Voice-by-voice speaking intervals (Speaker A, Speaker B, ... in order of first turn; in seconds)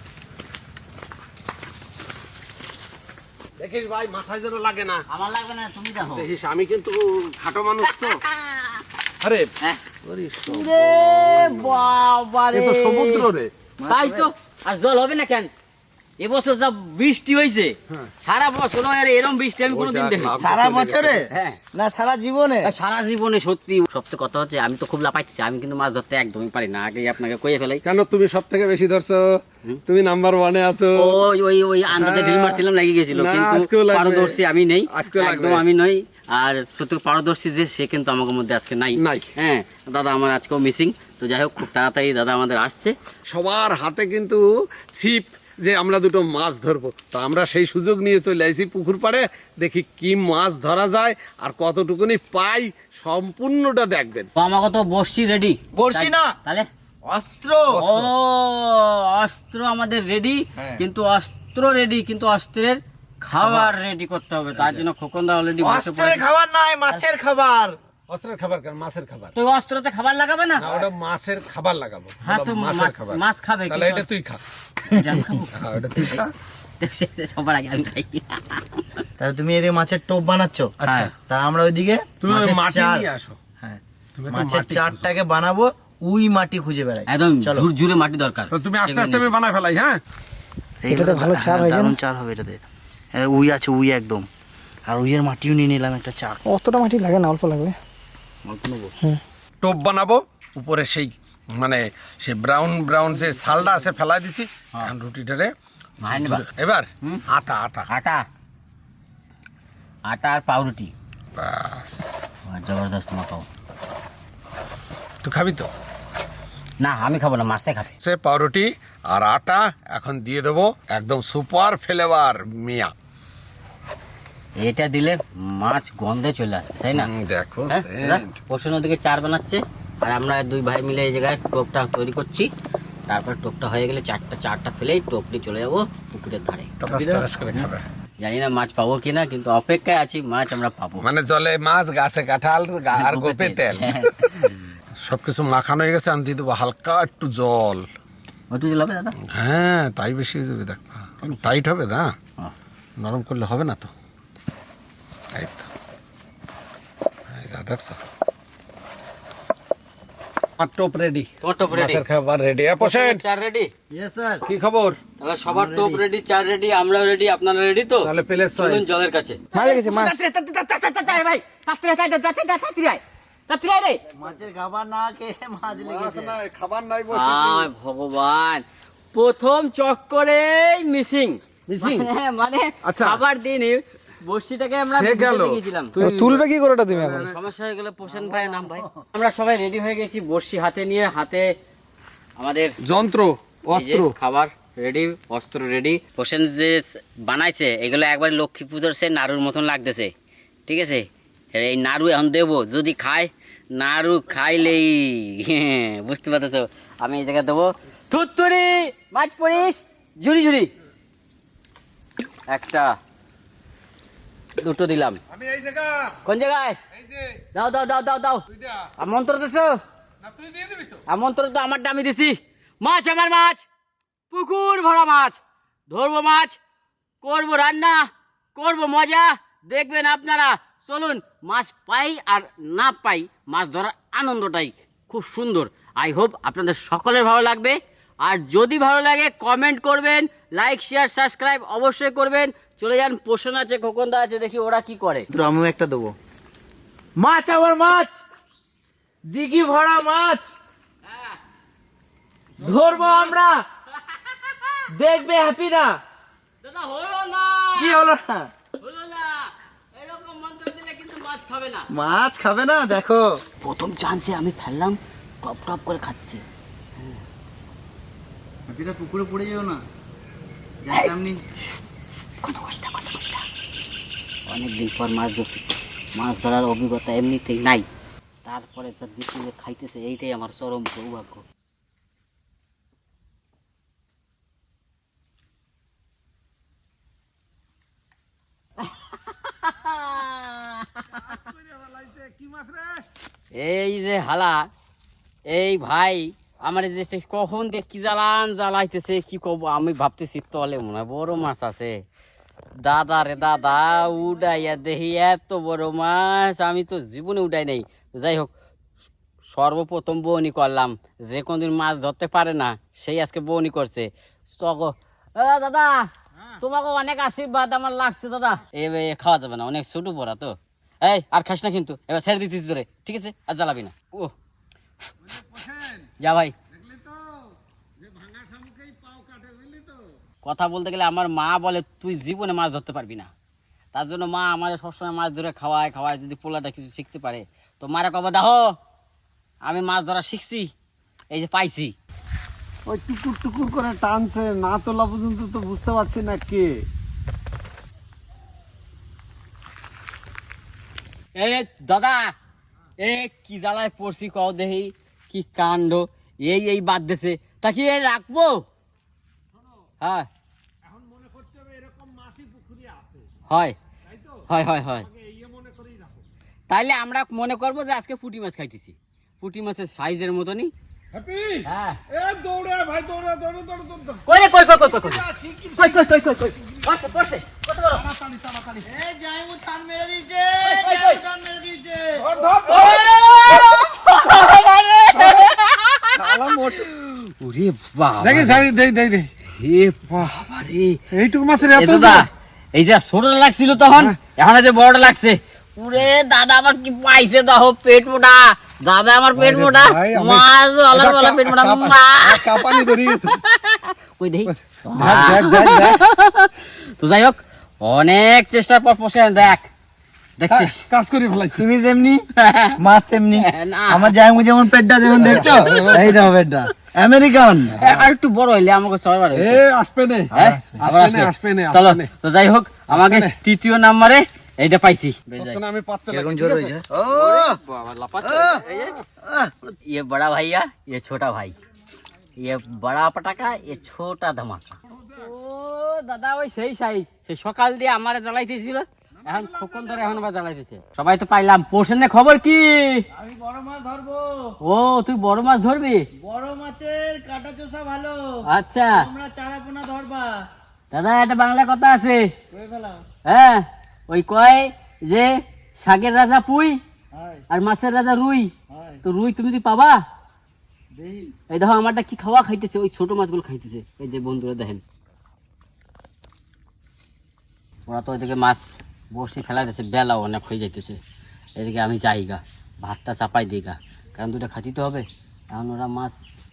Speaker A: 3.6-5.0, 6.0-8.2, 9.2-9.5, 10.4-11.9, 12.5-13.5, 19.7-21.2, 27.9-31.2, 31.9-34.4, 34.9-35.7, 39.0-39.3, 43.3-44.4, 44.9-54.3, 68.1-69.3, 70.6-74.4, 75.5-76.3, 80.8-81.1, 82.2-83.4, 84.2-85.1, 88.5-90.0, 99.6-105.5, 106.0-107.9, 111.4-112.1, 115.2-115.7, 118.0-122.9, 126.9-128.4, 136.8-137.9, 141.0-144.5, 145.0-147.9, 149.3-152.1, 153.0-153.9, 155.3-155.7, 157.3-158.0, 160.6-163.2, 164.5-165.0, 168.0-168.9, 175.7-177.7, 181.7-182.1, 182.8-183.2, 184.9-187.4, 192.8-194.2, 215.3-216.2, 216.9-217.4, 218.5-218.9, 220.2-221.0, 252.6-253.4, 291.1-293.1, 316.4-316.6, 325.2-326.1, 326.7-330.1, 342.9-346.8, 360.8-363.3, 364.1-366.3, 371.1-377.2, 377.9-378.9, 382.2-383.1, 385.1-385.5, 386.1-387.2, 388.2-389.3, 390.1-390.4, 391.1-392.3, 399.4-403.4, 404.5-406.0, 410.5-411.7, 415.2-416.3, 419.4-422.1, 422.9-423.4, 425.4-426.8, 428.6-429.0, 434.8-435.3, 439.2-440.3
Speaker B: 5.1-6.3, 7.8-8.8, 10.4-13.2, 13.9-15.5, 16.2-20.5, 21.3-21.6, 22.6-27.8, 31.0-43.0, 54.4-56.7, 57.8-66.2, 69.4-70.7, 72.2-74.1, 74.9-75.5, 76.8-79.0, 80.9-81.1, 87.1-89.3, 98.5-98.9, 106.0-106.5, 107.9-108.2, 110.1-110.9, 112.5-113.5, 116.8-117.9, 124.6-127.1, 127.7-132.5, 133.1-136.7, 138.2-141.1, 143.0-144.6, 148.5-149.1, 151.2-151.5, 161.4-162.0, 162.8-163.7, 165.2-174.0, 177.1-186.0, 187.2-191.5, 192.4-192.7, 193.7-200.1, 200.7-210.7, 212.5-212.9, 214.6-215.2, 216.2-216.8, 217.5-218.4, 219.0-219.8, 221.1-223.7, 224.3-226.6, 227.2-245.3, 251.0-251.4, 254.1-254.8, 256.6-258.0, 258.8-261.9, 263.6-266.4, 270.9-271.1, 272.4-273.4, 274.5-277.9, 278.4-281.4, 288.8-291.1, 293.5-294.7, 295.5-302.0, 302.8-308.5, 309.5-324.3, 326.2-326.6, 330.4-333.3, 333.9-338.7, 339.6-340.7, 341.3-341.9, 351.4-352.4, 353.0-358.6, 360.0-360.3, 363.5-363.8, 364.5-365.1, 366.7-370.7, 371.6-372.0, 374.3-375.2, 375.8-378.0, 380.6-381.2, 382.7-386.2, 387.4-388.7, 389.5-391.0, 391.7-409.7, 410.4-410.8, 412.4-412.8, 413.4-414.2, 417.8-419.6, 420.3-425.6, 427.1-429.0, 429.9-431.6, 432.4-443.1, 444.6-446.1, 448.5-449.1, 450.9-452.3, 453.3-456.8, 457.5-458.5, 459.0-460.0, 461.5-464.8, 467.9-471.0, 471.6-476.2
Speaker C: 10.1-10.5, 13.8-14.3, 20.4-22.7, 55.7-56.3, 57.0-58.1, 60.6-60.8, 63.4-63.7, 65.6-67.8, 74.9-75.2, 79.2-80.7, 81.3-83.1, 83.6-87.7, 90.8-92.6, 93.1-94.3, 94.9-96.5, 136.8-137.7, 163.9-164.4, 165.5-166.0, 174.2-176.4, 188.1-188.9, 245.3-246.2, 247.2-248.2, 249.3-250.5, 252.6-253.6, 254.9-256.0, 257.8-258.5, 261.9-263.4, 268.7-269.8, 270.8-271.4, 378.8-382.3, 411.5-412.2, 412.8-417.8, 420.3-420.9, 426.1-427.6, 428.2-428.6, 429.2-429.7, 443.1-444.6, 446.2-450.4, 452.5-453.0, 457.1-457.4, 458.7-459.0, 460.9-461.3
Speaker D: 90.9-92.0, 96.5-97.8, 169.5-170.2, 186.0-187.2